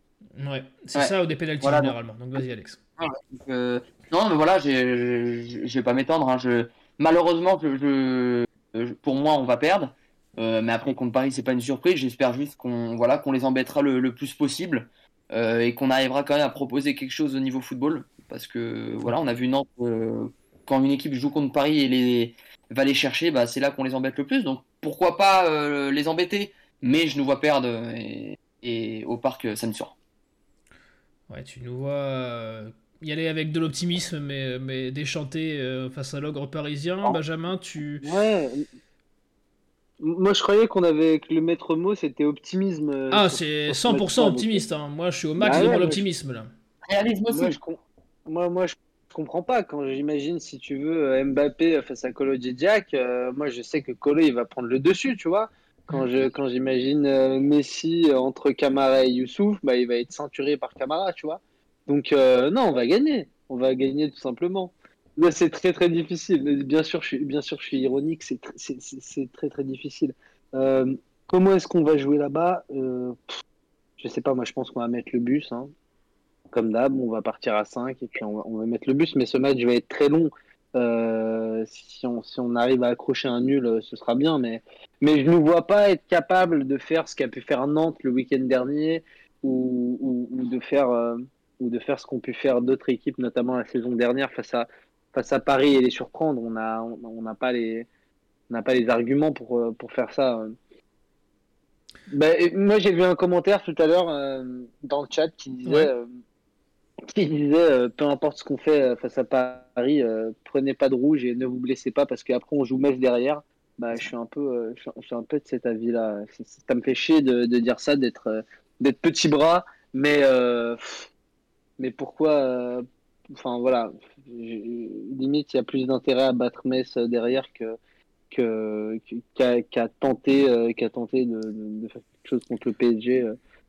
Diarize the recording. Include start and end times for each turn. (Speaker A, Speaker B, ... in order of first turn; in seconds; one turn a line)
Speaker A: 0.4-2.8
Speaker B: 0.9-1.9
Speaker B: 3.0-29.9
Speaker A: 31.3-38.1
Speaker C: 38.0-38.6
Speaker C: 40.0-44.6
Speaker A: 43.1-46.5
Speaker C: 45.4-46.0
Speaker B: 46.9-47.6
Speaker C: 47.3-73.4
Speaker C: 74.0-75.7
Speaker C: 76.5-97.9
Speaker C: 98.5-100.5
Speaker C: 102.1-106.0
Speaker A: 105.6-105.9
Speaker C: 107.1-121.1
Speaker C: 121.8-127.8
Speaker C: 128.3-133.4